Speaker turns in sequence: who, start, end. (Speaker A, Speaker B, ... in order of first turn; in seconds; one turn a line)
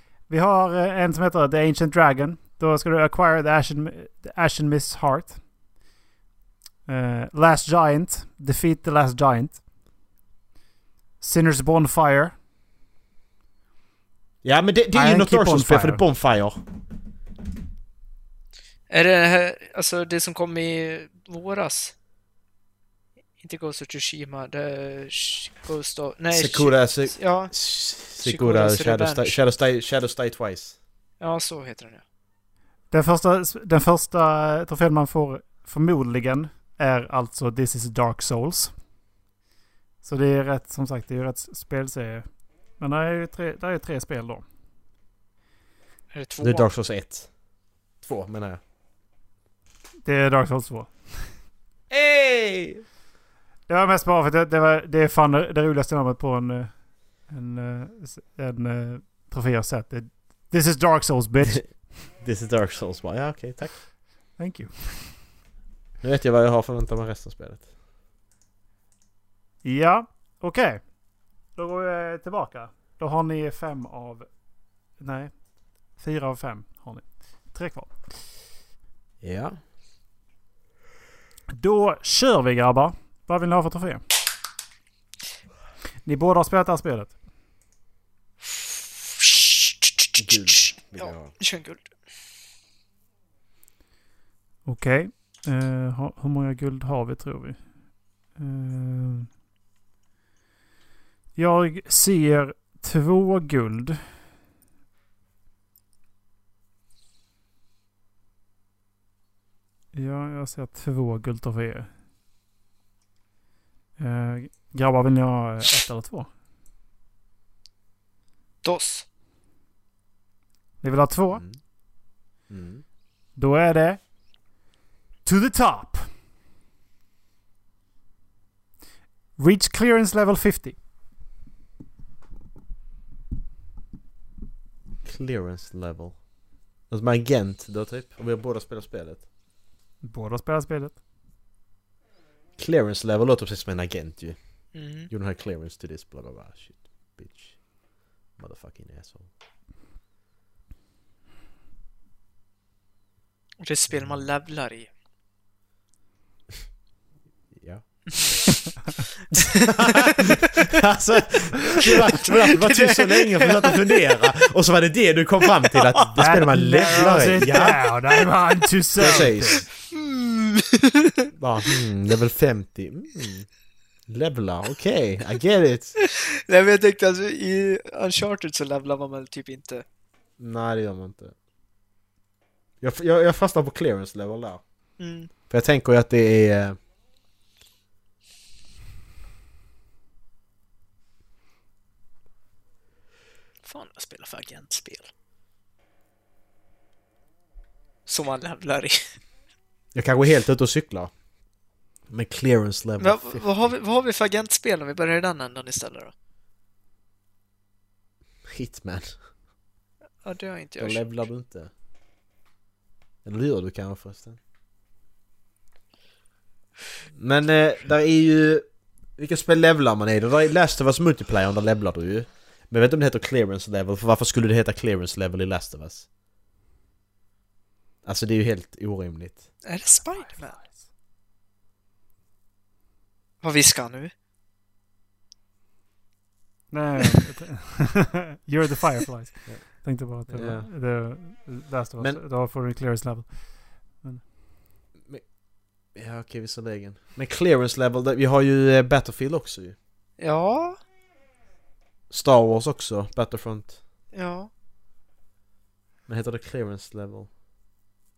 Speaker A: 0.3-5.4
Speaker A: 6.9-9.6
Speaker A: 11.2-12.3
Speaker B: 14.4-16.6
Speaker A: 14.9-16.0
Speaker C: 18.9-21.9
Speaker C: 23.4-27.5
Speaker B: 26.3-30.8
Speaker C: 28.1-29.4
Speaker C: 31.2-32.0
Speaker A: 32.9-38.7
Speaker A: 40.0-42.2
Speaker A: 42.8-44.4
Speaker C: 46.1-46.7
Speaker B: 46.4-47.3
Speaker B: 48.0-48.6
Speaker A: 50.0-50.9
Speaker B: 51.9-52.8
Speaker A: 53.7-56.7
Speaker A: 57.2-61.7
Speaker B: 62.2-63.8
Speaker A: 64.4-65.1
Speaker B: 66.0-67.7
Speaker A: 69.6-70.8
Speaker A: 71.5-74.3
Speaker A: 75.0-75.3
Speaker A: 76.0-78.1
Speaker B: 79.2-79.6
Speaker A: 81.5-84.0
Speaker A: 86.0-87.1
Speaker C: 89.2-91.9
Speaker B: 90.2-91.3
Speaker A: 94.7-97.6
Speaker A: 98.3-99.3
Speaker A: 101.3-104.0
Speaker A: 109.9-111.9
Speaker A: 114.0-116.3
Speaker C: 118.6-119.0
Speaker A: 120.8-121.4
Speaker B: 122.5-122.8
Speaker A: 123.3-124.0
Speaker A: 125.2-126.0
Speaker A: 129.4-130.8
Speaker B: 135.0-136.2
Speaker B: 136.9-139.2
Speaker A: 140.0-141.0
Speaker B: 142.6-144.4
Speaker C: 144.7-145.1
Speaker B: 145.1-147.6
Speaker B: 148.4-149.3
Speaker C: 153.6-154.9
Speaker B: 157.5-157.8
Speaker C: 158.1-158.5
Speaker B: 159.4-167.8
Speaker C: 159.8-160.7
Speaker C: 161.8-164.0
Speaker C: 165.7-166.0
Speaker A: 166.2-169.6
Speaker B: 169.0-169.7
Speaker C: 169.9-171.3
Speaker B: 171.3-173.5
Speaker B: 174.1-175.9
Speaker C: 176.0-179.8
Speaker B: 180.4-181.3
Speaker B: 182.8-184.6
Speaker C: 185.0-185.3
Speaker B: 185.5-186.8
Speaker C: 193.6-195.1
Speaker C: 198.1-199.0
Speaker B: 199.9-201.1
Speaker B: 202.1-203.7
Speaker C: 203.0-206.1
Speaker B: 208.5-209.2
Speaker C: 210.2-211.0
Speaker B: 210.8-211.7
Speaker B: 213.2-214.4
Speaker B: 217.2-218.6
Speaker B: 219.2-226.1
Speaker B: 228.0-229.5
Speaker C: 229.6-230.6
Speaker C: 233.4-234.1
Speaker A: 236.7-243.4
Speaker B: 240.3-240.7
Speaker B: 245.9-249.8
Speaker C: 250.2-250.8
Speaker B: 252.1-253.8
Speaker C: 254.1-254.5
Speaker B: 256.1-257.3